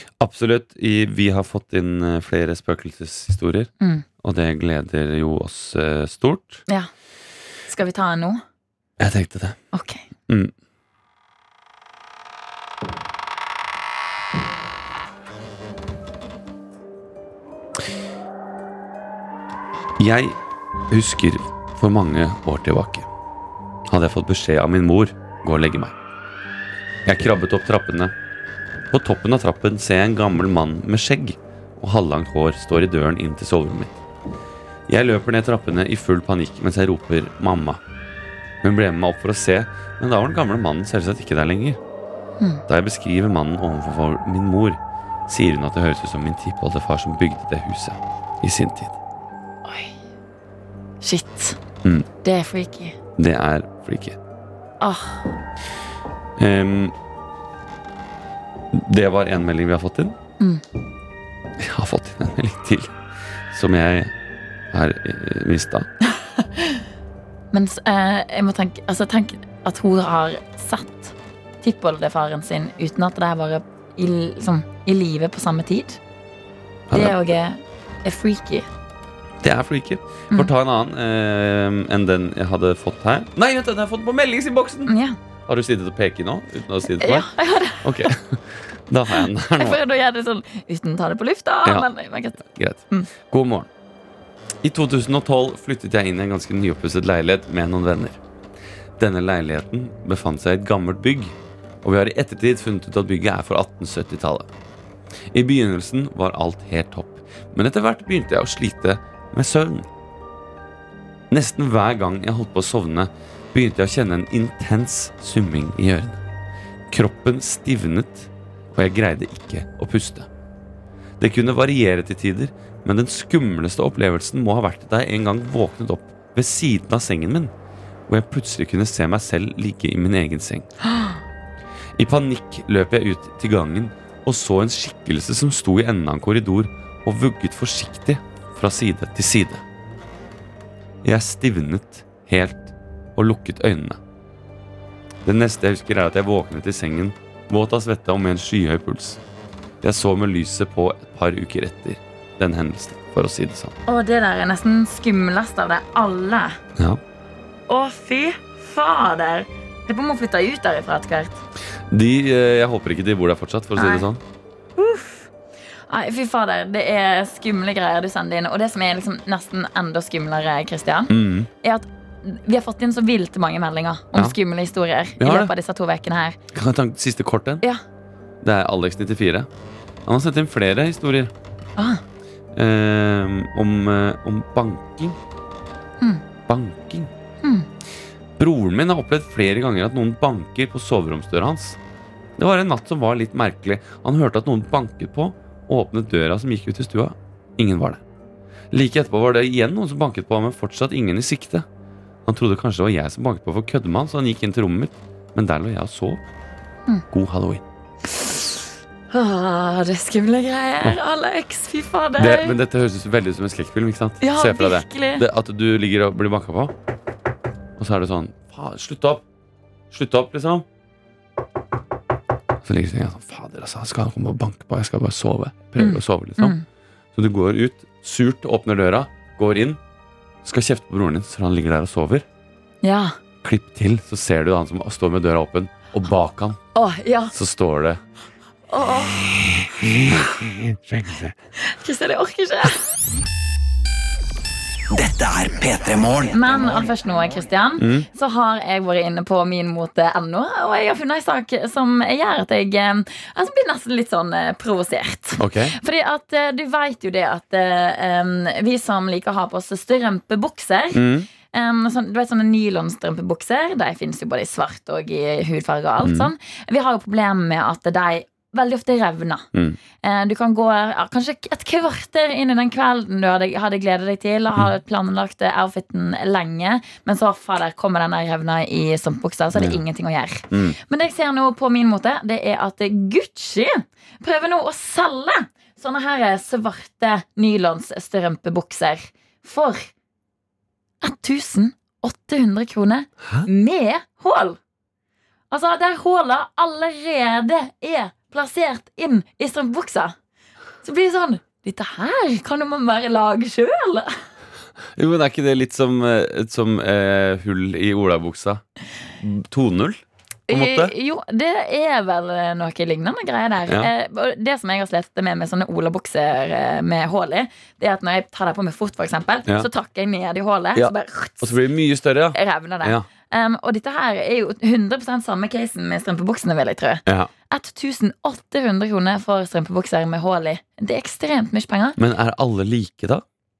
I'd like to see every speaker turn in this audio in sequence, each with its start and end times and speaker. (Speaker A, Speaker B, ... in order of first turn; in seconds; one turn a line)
Speaker A: 0.2-3.7
Speaker B: 3.8-4.0
Speaker A: 4.2-6.6
Speaker B: 7.7-8.4
Speaker A: 9.0-9.6
Speaker B: 9.7-10.0
Speaker A: 20.0-20.4
Speaker A: 20.9-23.1
Speaker A: 23.9-25.9
Speaker A: 27.1-28.1
Speaker A: 28.9-34.0
Speaker A: 34.9-37.8
Speaker A: 38.6-41.8
Speaker A: 42.7-49.0
Speaker B: 49.6-49.9
Speaker B: 51.0-51.6
Speaker B: 52.2-53.0
Speaker A: 53.2-54.2
Speaker B: 54.8-55.3
Speaker A: 56.4-56.9
Speaker A: 58.7-60.1
Speaker A: 61.6-63.0
Speaker A: 63.5-64.1
Speaker A: 64.7-65.9
Speaker B: 66.4-66.8
Speaker B: 67.5-76.0
Speaker A: 76.9-77.2
Speaker B: 76.9-78.7
Speaker A: 79.4-84.9
Speaker B: 84.9-85.2
Speaker A: 85.5-89.8
Speaker B: 87.0-88.2
Speaker B: 89.1-93.1
Speaker A: 91.6-93.7
Speaker A: 94.6-98.2
Speaker A: 99.0-104.5
Speaker A: 105.3-109.9
Speaker A: 111.3-116.2
Speaker A: 116.9-120.3
Speaker A: 121.2-127.5
Speaker A: 128.1-130.7
Speaker A: 131.9-139.6
Speaker A: 141.0-144.0
Speaker A: 145.2-149.2
Speaker A: 149.8-153.8
Speaker B: 153.9-156.6
Speaker A: 156.8-157.0
Speaker B: 157.7-161.4
Speaker A: 161.9-164.2
Speaker B: 163.8-164.1
Speaker B: 164.8-165.3
Speaker B: 165.9-176.4
Speaker A: 171.1-171.5
Speaker A: 175.2-175.5
Speaker A: 176.5-177.6
Speaker A: 178.4-179.5
Speaker A: 180.0-181.3
Speaker B: 181.8-182.0
Speaker A: 182.5-185.2
Speaker A: 186.5-187.1
Speaker A: 188.4-191.8
Speaker A: 192.4-198.0
Speaker A: 198.7-201.7
Speaker A: 202.2-206.2
Speaker A: 207.1-207.6
Speaker B: 208.2-208.5
Speaker B: 209.1-212.6
Speaker A: 212.2-216.7
Speaker B: 214.2-215.2
Speaker A: 217.8-219.2
Speaker A: 219.9-220.6
Speaker A: 222.6-226.5
Speaker B: 225.8-226.6
Speaker A: 227.1-229.8
Speaker A: 230.4-232.2
Speaker B: 232.8-233.2
Speaker A: 233.4-236.6
Speaker B: 236.7-237.3
Speaker A: 237.3-238.0
Speaker B: 238.7-240.3
Speaker A: 239.6-241.3
Speaker B: 241.6-242.8
Speaker C: 244.9-246.9
Speaker B: 246.3-269.5
Speaker A: 247.8-248.1
Speaker A: 255.4-255.8
Speaker A: 260.9-261.3
Speaker A: 266.0-266.3
Speaker B: 270.0-289.9
Speaker A: 279.5-279.8
Speaker A: 280.5-280.8
Speaker B: 291.0-294.6
Speaker B: 295.5-300.1
Speaker B: 300.8-304.1
Speaker A: 304.9-308.6
Speaker A: 309.2-310.9
Speaker B: 310.5-321.6
Speaker A: 320.7-323.0
Speaker B: 322.3-332.0
Speaker A: 332.0-333.2